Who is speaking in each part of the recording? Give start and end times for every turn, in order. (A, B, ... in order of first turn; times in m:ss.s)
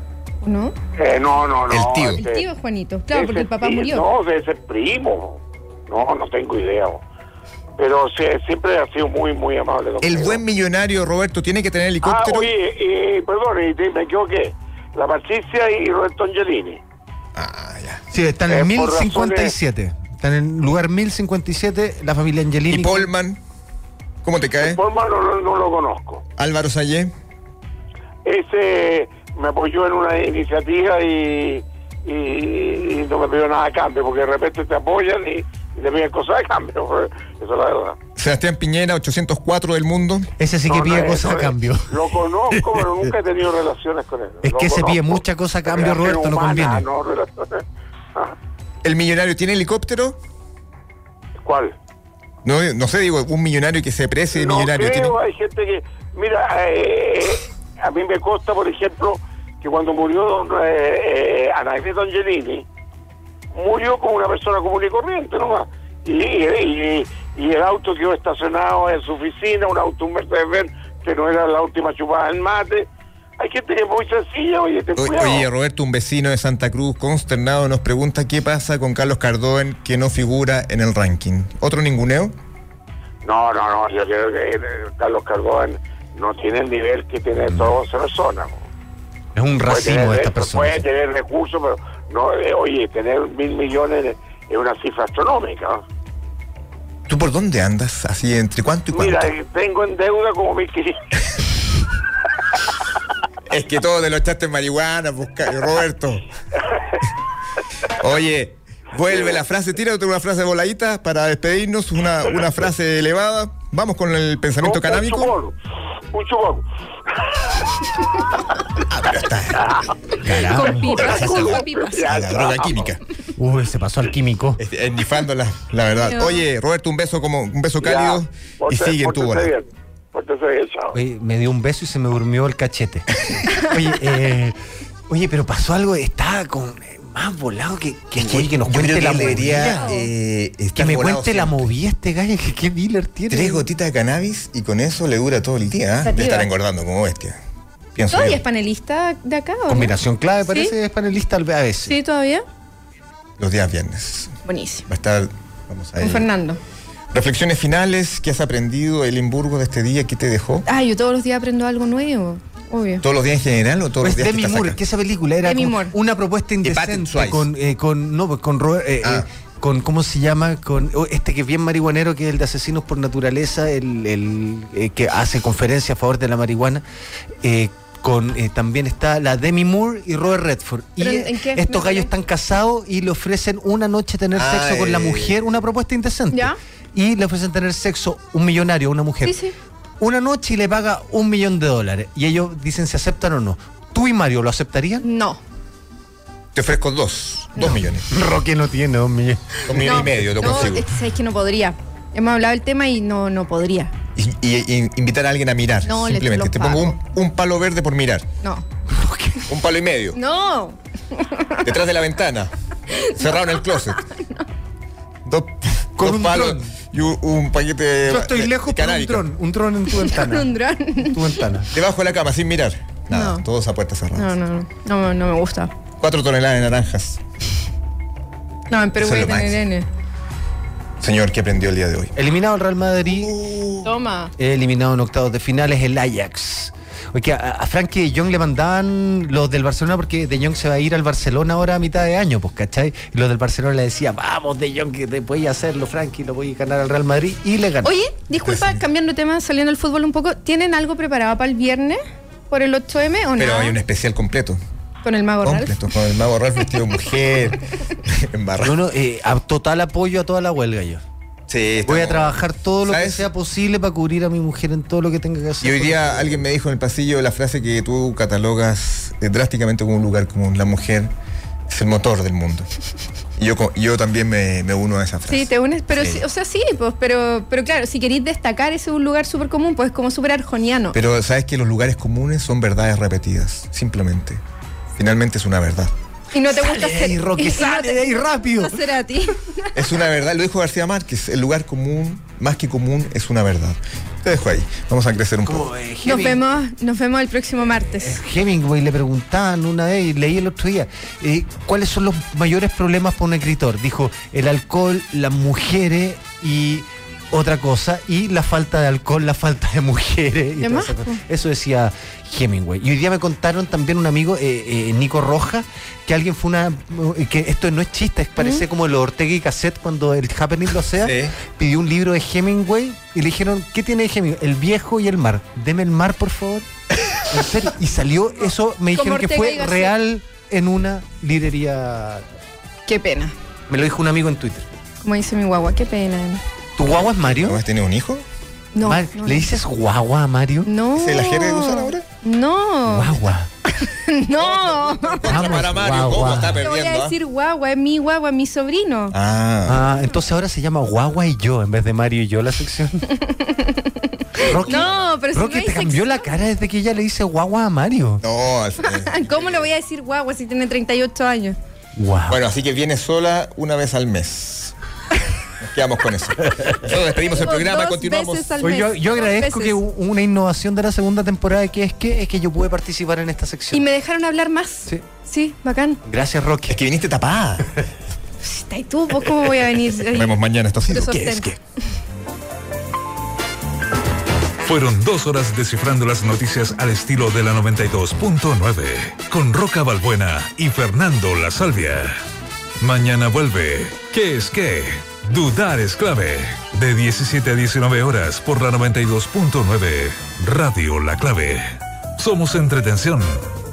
0:00.4-0:00.7 A
0:01.0-0:02.5 B
0:01.7-0:02.2 C
0:02.2-0:04.0 A
0:03.1-0:07.0 B
0:07.8-0:10.4 B
0:10.0-0:12.5 C
0:12.0-0:16.8 B
0:17.4-0:18.0 C
0:18.1-0:23.1 D
0:18.5-0:19.5 B
0:22.7-0:23.4 C
0:24.2-0:24.8 C
0:24.6-0:26.2 B
0:26.4-0:27.1 C
0:28.2-0:38.0 B
0:38.2-0:40.3 C
0:40.4-0:42.9 D
0:40.7-0:47.6 B
0:44.4-0:46.9 D
0:48.8-0:50.2 C
0:51.4-0:51.7 B
0:52.4-0:55.2 C
0:54.3-1:02.6 B
1:03.5-1:15.5 B
1:15.0-1:22.3 C
1:23.2-1:28.6 B
1:27.5-1:27.8 D
1:29.3-1:30.9 D
1:29.6-1:35.8 B
1:37.1-1:39.3 C
1:38.9-1:41.0 B
1:43.5-1:46.2 C
1:48.0-1:55.3 C
1:49.1-1:49.4 B
1:54.6-1:55.5 B
1:56.1-1:56.6 B
1:58.9-1:59.8 C
2:00.2-2:01.0 D
2:00.4-2:02.0 A
2:00.8-2:03.0 C
2:01.0-2:02.9 B
2:03.4-2:04.6 D
2:04.6-2:09.5 C
2:06.0-2:06.4 A
2:07.8-2:10.9 B
2:10.9-2:14.6 D
2:15.1-2:19.9 D
2:18.2-2:21.7 C
2:19.7-2:20.1 A
2:20.7-2:23.6 D
2:23.3-2:27.4 C
2:26.0-2:26.5 A
2:27.9-2:28.4 C
2:28.1-2:30.7 A
2:29.7-2:32.0 D
2:31.8-2:32.4 A
2:33.4-2:34.4 C
2:34.4-2:34.8 A
2:34.9-2:36.3 C
2:36.0-2:36.6 A
2:37.1-2:40.6 C
2:40.6-2:43.0 A
2:43.0-2:44.8 C
2:44.0-2:56.8 D
2:45.4-2:45.9 A
2:46.6-2:47.5 C
2:57.4-3:09.4 D
3:01.0-3:02.1 A
3:04.3-3:05.4 C
3:06.3-3:06.6 A
3:09.2-3:09.5 A
3:10.0-3:15.1 D
3:15.0-3:15.4 A
3:16.5-3:18.0 C
3:18.1-3:20.0 D
3:19.7-3:20.8 C
3:19.8-3:23.9 A
3:24.2-3:28.2 C
3:25.8-3:27.0 A
3:28.9-3:29.4 D
3:29.5-3:30.2 C
3:30.1-3:31.6 A
3:31.6-3:32.5 C
3:33.0-3:34.4 A
3:33.1-3:34.0 C
3:35.2-3:39.3 C
3:36.0-3:36.7 D
3:38.1-3:41.7 D
3:39.9-3:41.5 A
3:41.7-3:44.3 C
3:43.1-3:43.4 A
3:44.1-3:45.7 A
3:46.0-3:47.2 C
3:48.7-3:49.9 A
3:49.0-3:49.6 C
3:51.0-3:52.1 C
3:52.2-3:53.3 D
3:53.1-3:53.9 C
3:53.8-3:54.3 A
3:54.4-4:07.9 D
4:07.8-4:13.8 A
4:08.4-4:08.8 C
4:13.4-4:14.6 C
4:15.0-4:15.9 A
4:15.4-4:18.8 C
4:18.6-4:21.0 D
4:21.5-4:23.3 C
4:21.8-4:26.5 D
4:25.6-4:31.1 C
4:31.7-4:32.7 C
4:33.4-4:36.2 C
4:35.3-4:41.0 A
4:40.9-4:44.4 C
4:45.0-4:45.9 C
4:46.3-4:49.7 A
4:46.5-4:49.0 D
4:49.7-4:55.7 C
4:55.4-4:56.5 D
4:56.0-4:58.2 A
4:57.8-5:26.7 D
5:10.6-5:11.2 A
5:18.4-5:18.6 A
5:21.0-5:21.3 C
5:27.3-5:32.2 D
5:28.9-5:29.9 A
5:32.8-5:33.3 A
5:33.7-5:34.7 D
5:35.0-5:36.4 A
5:36.8-5:37.6 D
5:37.4-5:38.2 C
5:38.7-5:39.5 A
5:38.8-5:40.7 D
5:40.6-5:43.2 A
5:40.9-5:42.0 C
5:42.8-5:43.5 D
5:43.8-5:45.7 A
5:44.3-5:47.2 C
5:45.2-5:46.6 D
5:46.6-5:49.1 A
5:49.1-5:49.9 C
5:49.6-5:53.1 D
5:53.1-5:56.3 A
5:54.4-5:58.2 D
5:54.7-5:55.0 C
5:58.2-5:59.7 C
5:58.8-6:01.6 A
6:02.0-6:02.4 D
6:02.3-6:04.7 C
6:05.6-6:08.6 C
6:07.2-6:09.8 A
6:08.6-6:13.8 D
6:13.7-6:16.0 A
6:16.0-6:16.8 D
6:16.7-6:17.7 C
6:18.4-6:21.5 A
6:19.4-6:21.6 C
6:24.6-6:32.2 E
6:32.8-6:43.4 E